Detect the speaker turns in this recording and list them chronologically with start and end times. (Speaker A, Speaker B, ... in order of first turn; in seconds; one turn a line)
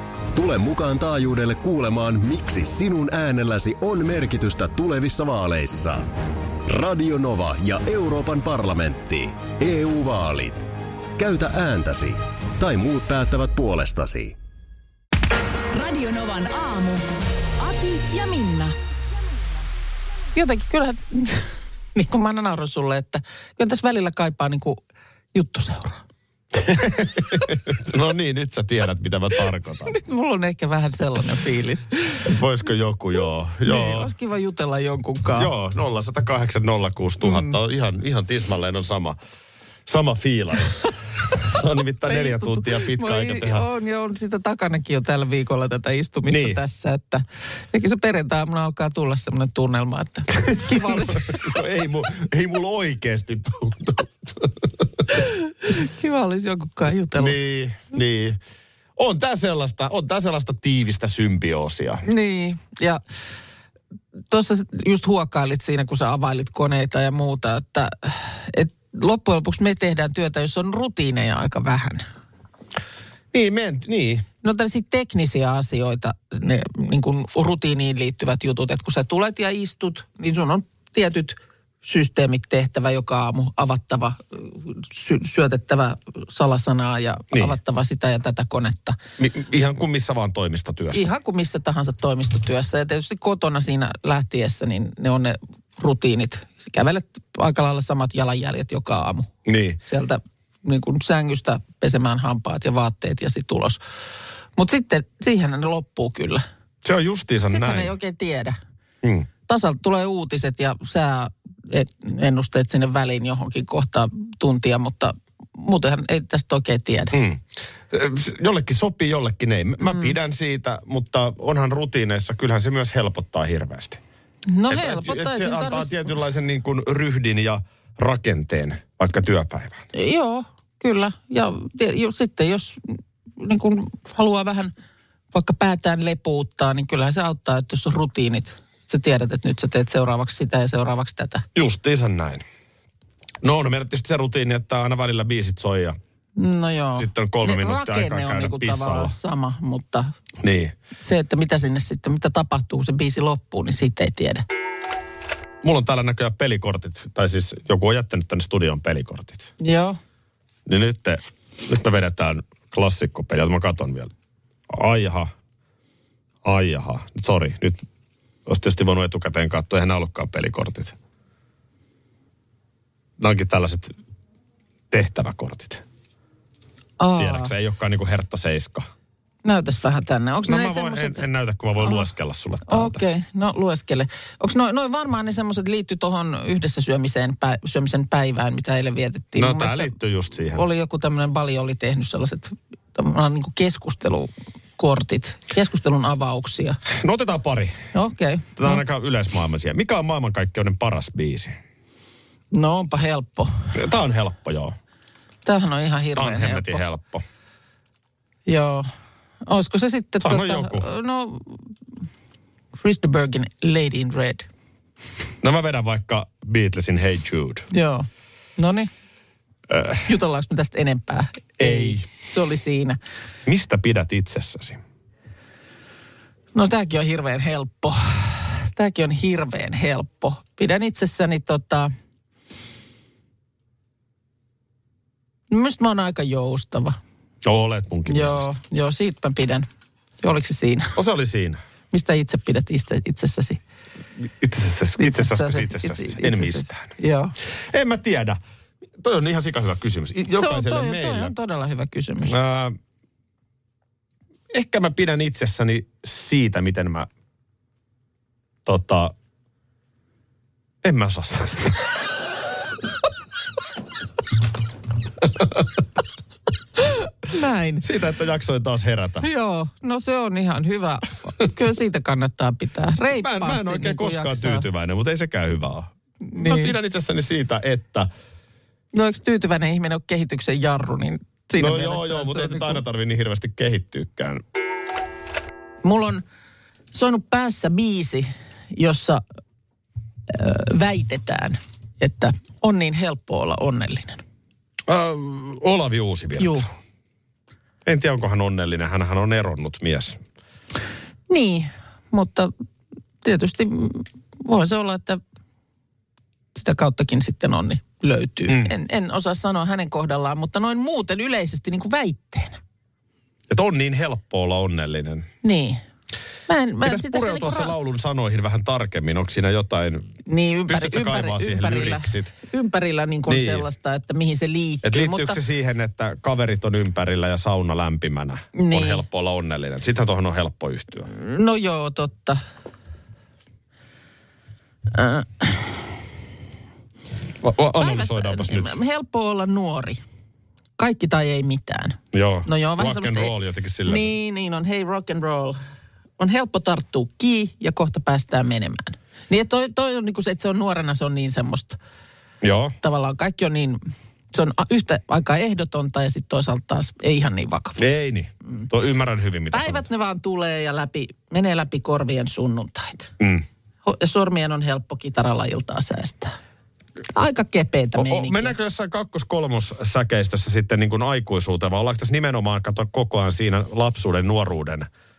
Speaker A: 0.3-6.1
Speaker A: 6.7-10.7
Speaker A: 11.2-14.3
Speaker B: 15.7-17.1
Speaker B: 17.6-18.7
Speaker C: 20.3-24.8
Speaker C: 25.3-26.0
Speaker D: 26.6-29.9
Speaker C: 29.9-32.3
Speaker D: 32.2-34.1
Speaker C: 33.6-35.5
Speaker D: 35.3-39.2
Speaker C: 37.2-37.5
Speaker D: 39.9-43.6
Speaker C: 42.0-51.5
Speaker D: 46.3-46.6
Speaker D: 50.5-54.8
Speaker C: 55.1-57.4
Speaker D: 57.2-58.4
Speaker D: 59.0-62.0
Speaker C: 62.0-63.0
Speaker C: 64.3-72.0
Speaker D: 73.3-74.2
Speaker C: 74.4-89.0
Speaker D: 89.2-91.1
Speaker C: 90.9-103.8
Speaker D: 99.5-99.8
Speaker C: 104.6-106.4
Speaker D: 106.8-107.9
Speaker C: 107.5-108.6
Speaker D: 109.0-109.3
Speaker C: 109.5-117.2
Speaker D: 117.1-124.0
Speaker C: 119.8-120.1
Speaker C: 124.5-126.1
Speaker D: 124.7-129.8
Speaker C: 129.9-134.7
Speaker C: 135.3-141.4
Speaker D: 141.5-142.4
Speaker D: 143.4-146.0
Speaker C: 146.4-150.1
Speaker D: 147.0-149.1
Speaker D: 150.4-150.8
Speaker C: 151.0-154.4
Speaker D: 155.6-159.5
Speaker C: 159.6-160.0
Speaker D: 160.7-164.1
Speaker D: 164.7-165.3
Speaker D: 166.4-167.8
Speaker D: 168.4-170.9
Speaker D: 173.2-173.9
Speaker D: 174.9-175.8
Speaker C: 177.0-177.5
Speaker D: 177.2-178.9
Speaker C: 179.4-181.3
Speaker D: 180.4-183.0
Speaker C: 182.7-189.9
Speaker D: 189.3-190.7
Speaker C: 190.5-196.8
Speaker D: 196.9-197.8
Speaker C: 197.9-198.8
Speaker D: 198.6-201.6
Speaker C: 202.5-203.7
Speaker D: 203.7-204.8
Speaker C: 205.4-206.8
Speaker D: 206.2-207.2
Speaker C: 208.4-208.9
Speaker C: 209.4-211.7
Speaker D: 210.2-210.8
Speaker C: 212.8-214.5
Speaker D: 215.4-217.7
Speaker C: 217.7-218.9
Speaker D: 219.7-220.0
Speaker C: 220.1-223.0
Speaker D: 221.6-222.1
Speaker D: 223.4-224.8
Speaker C: 226.5-231.9
Speaker C: 235.5-237.0
Speaker D: 237.4-238.5
Speaker C: 238.1-239.7
Speaker C: 240.2-240.9
Speaker D: 240.9-241.6
Speaker C: 241.9-243.6
Speaker D: 244.2-246.9
Speaker C: 245.0-247.3
Speaker D: 247.7-248.4
Speaker D: 249.0-251.3
Speaker C: 250.3-252.4
Speaker D: 252.2-252.8
Speaker D: 254.5-257.1
Speaker D: 258.6-259.1
Speaker D: 260.8-261.7
Speaker C: 266.9-267.8
Speaker D: 267.8-269.2
Speaker C: 269.2-274.6
Speaker D: 273.1-278.1
Speaker C: 276.2-276.8
Speaker C: 278.9-282.8
Speaker D: 281.6-284.4
Speaker C: 285.8-286.2
Speaker C: 286.9-289.2
Speaker C: 290.3-294.2
Speaker D: 294.9-296.7
Speaker C: 296.4-296.6
Speaker D: 297.8-300.2
Speaker C: 301.3-302.5
Speaker C: 303.2-305.2
Speaker C: 306.6-312.6
Speaker D: 313.5-315.3
Speaker C: 315.4-315.8
Speaker C: 316.5-317.7
Speaker D: 316.8-320.1
Speaker C: 320.2-325.4
Speaker D: 320.7-322.3
Speaker D: 323.3-323.6
Speaker D: 324.8-331.1
Speaker C: 328.5-329.0
Speaker C: 331.1-332.4
Speaker C: 334.9-335.9
Speaker D: 337.4-338.8
Speaker C: 337.8-340.0
Speaker C: 340.8-343.3
Speaker D: 342.1-344.1
Speaker C: 343.8-345.6
Speaker C: 346.2-351.8
Speaker D: 352.4-352.7
Speaker C: 352.8-353.8
Speaker C: 354.3-357.8
Speaker D: 357.8-359.8
Speaker C: 359.5-363.1
Speaker C: 363.8-366.3
Speaker C: 367.1-368.6
Speaker D: 367.9-374.9